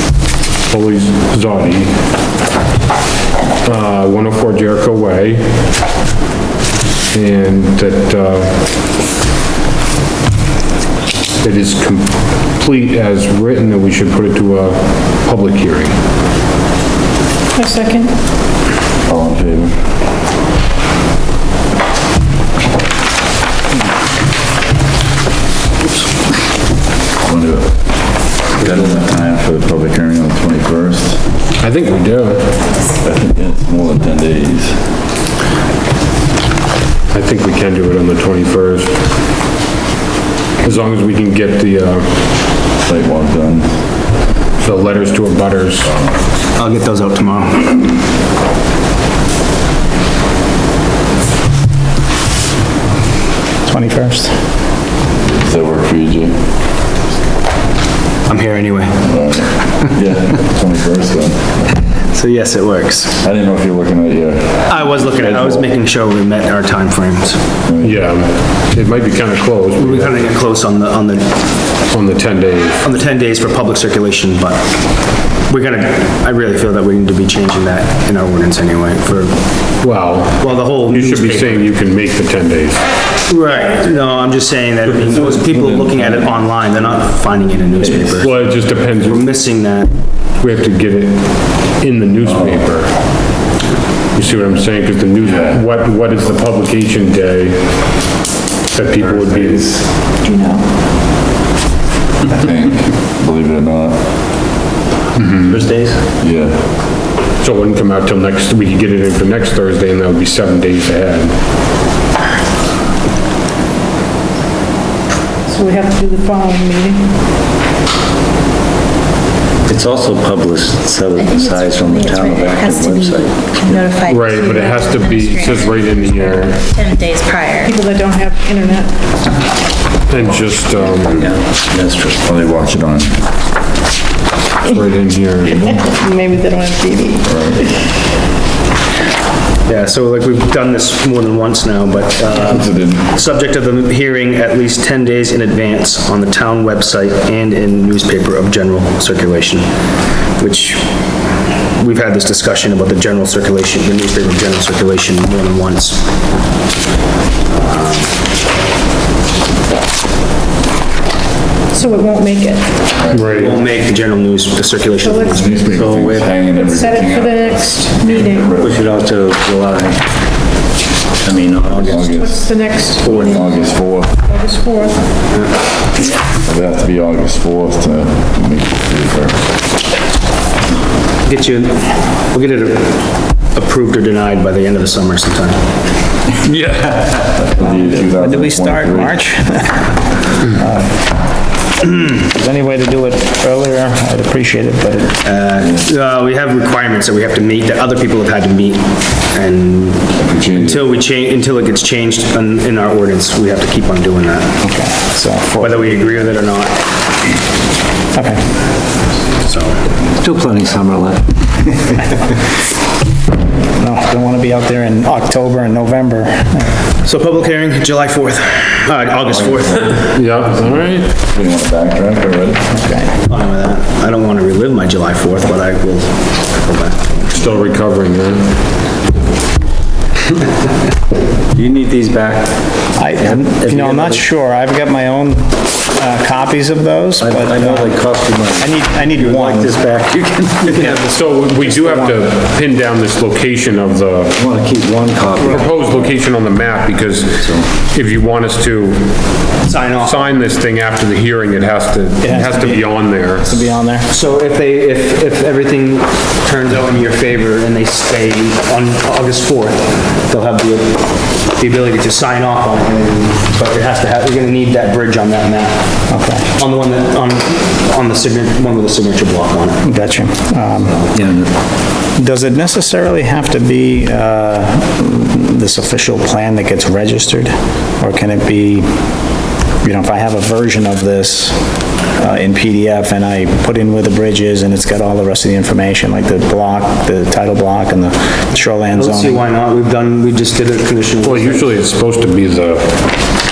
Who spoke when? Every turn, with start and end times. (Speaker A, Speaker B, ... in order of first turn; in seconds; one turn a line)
Speaker A: 0.7-2.0
Speaker A: 3.6-5.5
Speaker A: 7.1-8.6
Speaker A: 11.4-15.9
Speaker B: 17.5-18.1
Speaker C: 19.1-19.8
Speaker C: 27.2-31.2
Speaker A: 31.6-32.7
Speaker C: 33.0-34.9
Speaker A: 37.1-39.0
Speaker A: 40.6-42.1
Speaker C: 42.8-44.1
Speaker A: 44.6-45.9
Speaker C: 45.0-46.2
Speaker D: 46.5-47.9
Speaker E: 53.6-54.3
Speaker C: 55.2-56.4
Speaker D: 58.3-59.7
Speaker C: 59.0-61.8
Speaker D: 62.0-63.2
Speaker C: 63.2-65.7
Speaker D: 64.7-67.4
Speaker C: 67.6-68.0
Speaker A: 67.8-70.2
Speaker D: 69.8-71.5
Speaker A: 71.9-72.9
Speaker D: 72.8-79.8
Speaker A: 79.8-82.9
Speaker D: 80.3-81.7
Speaker D: 83.3-89.9
Speaker C: 84.9-86.4
Speaker C: 87.8-88.2
Speaker A: 88.2-89.3
Speaker A: 90.4-93.4
Speaker C: 92.2-92.7
Speaker A: 94.1-98.0
Speaker C: 95.2-95.8
Speaker A: 98.7-99.8
Speaker B: 100.2-100.6
Speaker C: 102.3-104.0
Speaker A: 105.2-105.6
Speaker F: 105.4-106.1
Speaker C: 106.2-106.6
Speaker A: 107.4-111.4
Speaker B: 115.5-117.1
Speaker F: 119.7-123.9
Speaker G: 121.3-125.7
Speaker A: 124.0-126.6
Speaker G: 126.8-127.6
Speaker B: 127.6-129.1
Speaker A: 130.1-131.3
Speaker C: 130.2-131.2
Speaker F: 131.1-132.2
Speaker C: 132.2-133.2
Speaker A: 134.7-135.6
Speaker C: 135.4-135.8
Speaker B: 135.5-137.8
Speaker C: 137.2-137.6
Speaker D: 139.7-149.7
Speaker C: 142.3-143.1
Speaker D: 150.4-150.9
Speaker D: 151.8-156.1
Speaker D: 157.5-158.1
Speaker B: 161.7-162.9
Speaker C: 162.9-163.4
Speaker A: 163.1-163.6
Speaker D: 163.3-165.6
Speaker B: 165.0-165.5
Speaker C: 165.3-169.0
Speaker F: 165.7-166.5
Speaker B: 166.5-168.6
Speaker F: 168.5-170.0
Speaker F: 171.2-172.0
Speaker D: 171.7-171.9
Speaker C: 171.8-174.2
Speaker B: 172.0-173.6
Speaker B: 174.2-175.1
Speaker D: 175.3-175.5
Speaker C: 176.4-179.4
Speaker D: 181.2-185.6
Speaker C: 186.4-189.2
Speaker F: 186.9-187.2
Speaker E: 187.6-191.0
Speaker E: 191.8-195.2
Speaker D: 195.2-204.6
Speaker C: 195.6-195.8
Speaker C: 200.2-200.9
Speaker E: 204.6-206.3
Speaker D: 205.6-206.8
Speaker E: 208.1-208.4
Speaker D: 209.4-209.8
Speaker F: 210.2-211.2
Speaker E: 213.8-216.8
Speaker D: 217.0-220.0
Speaker C: 219.3-222.7
Speaker A: 219.8-221.2
Speaker E: 222.7-223.1
Speaker D: 223.2-227.3
Speaker A: 227.3-228.5
Speaker F: 231.5-234.2
Speaker E: 233.0-238.0
Speaker F: 237.2-241.0
Speaker E: 238.6-240.1
Speaker E: 240.7-242.2
Speaker A: 241.1-244.4
Speaker F: 244.3-245.8
Speaker A: 245.4-249.1
Speaker E: 245.4-245.7
Speaker F: 247.4-247.7
Speaker D: 249.6-250.4
Speaker A: 250.0-253.6
Speaker E: 252.2-254.1
Speaker D: 254.1-269.8
Speaker E: 266.1-266.5
Speaker E: 269.8-271.0
Speaker F: 271.1-271.5
Speaker E: 272.1-278.9
Speaker E: 279.8-289.4
Speaker D: 288.9-291.7
Speaker A: 291.2-293.0